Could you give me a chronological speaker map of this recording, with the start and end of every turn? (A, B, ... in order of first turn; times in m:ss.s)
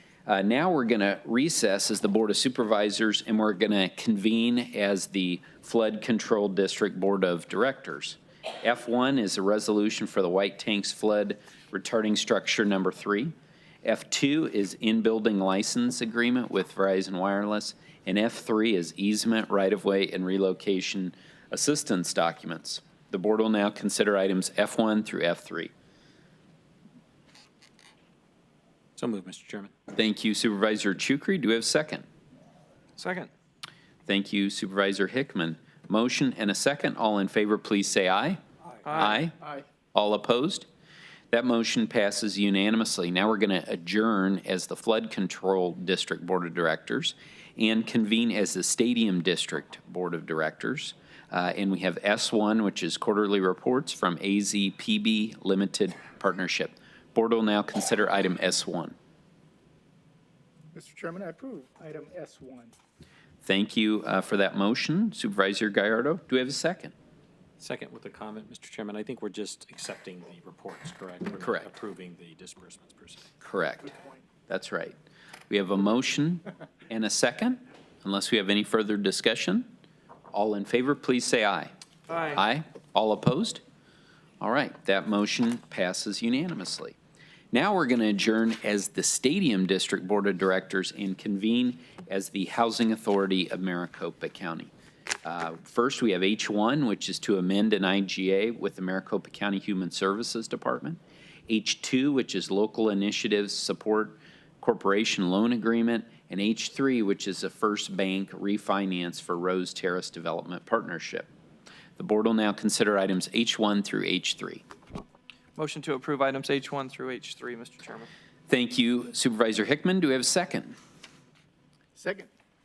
0:00.3-0:13.3 A
0:13.8-0:25.7 A
0:29.0-0:29.7 B
0:29.9-0:32.1 A
0:33.0-0:33.3 C
0:34.1-0:38.4 A
0:38.8-0:39.2 C
0:38.9-0:39.4 A
0:39.9-0:40.7 A
0:41.3-0:59.0 A
1:00.7-1:02.8 D
1:03.4-1:06.9 A
1:07.6-1:13.3 B
1:11.4-1:11.7 A
1:13.4-1:14.0 A
1:14.5-1:15.0 A
1:15.5-1:19.7 A
1:20.3-1:21.7 A
1:22.1-1:22.4 C
1:22.3-1:23.6 A
1:24.4-1:27.0 A
1:27.5-1:34.7 A
1:35.2-1:51.3 A
1:52.0-1:54.6 A
1:55.6-1:58.1 C
1:58.5-2:00.8 A
2:02.0-2:02.3 D